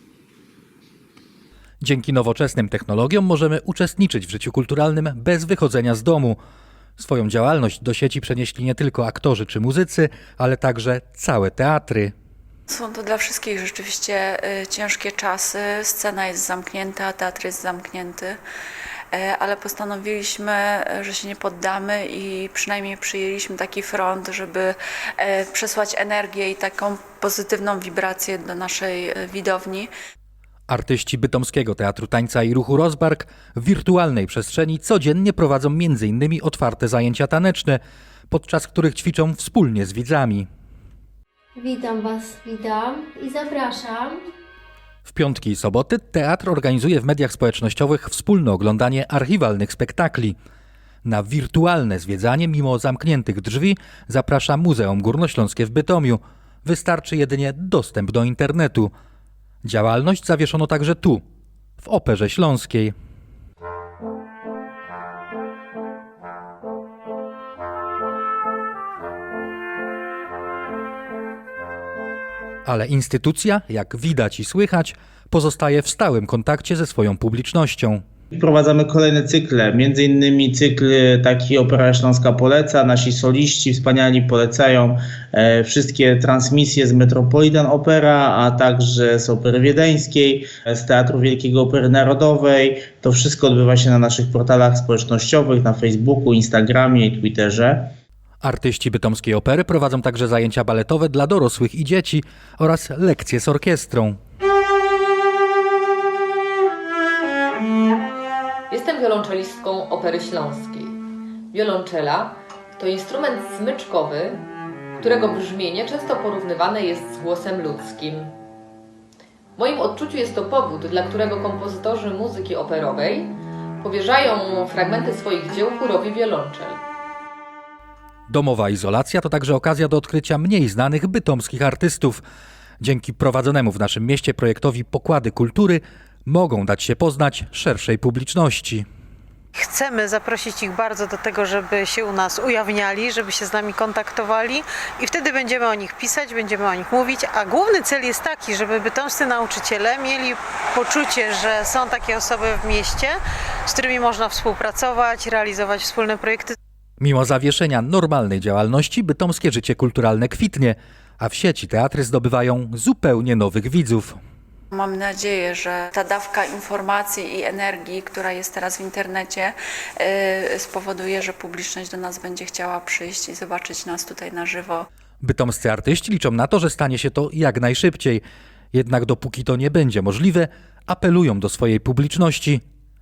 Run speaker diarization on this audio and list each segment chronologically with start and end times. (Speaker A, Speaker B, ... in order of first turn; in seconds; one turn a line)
Speaker A: 1.8-6.4
Speaker A: 7.0-12.1
Speaker B: 12.7-18.4
Speaker B: 19.1-29.9
Speaker A: 30.7-40.5
Speaker C: 41.5-44.3
Speaker A: 45.0-50.3
Speaker A: 51.0-58.9
Speaker A: 59.6-61.2
Speaker A: 61.8-62.9
Speaker A: 72.7-78.0
Speaker D: 78.3-97.9
Speaker A: 98.4-104.2
Speaker E: 108.7-111.0
Speaker E: 111.5-114.4
Speaker E: 115.0-118.3
Speaker E: 119.6-126.8
Speaker A: 128.3-132.2
Speaker A: 132.8-138.9
Speaker F: 139.6-156.6
Speaker A: 157.0-164.2
Speaker B: 164.7-174.9
Speaker A: 175.2-182.6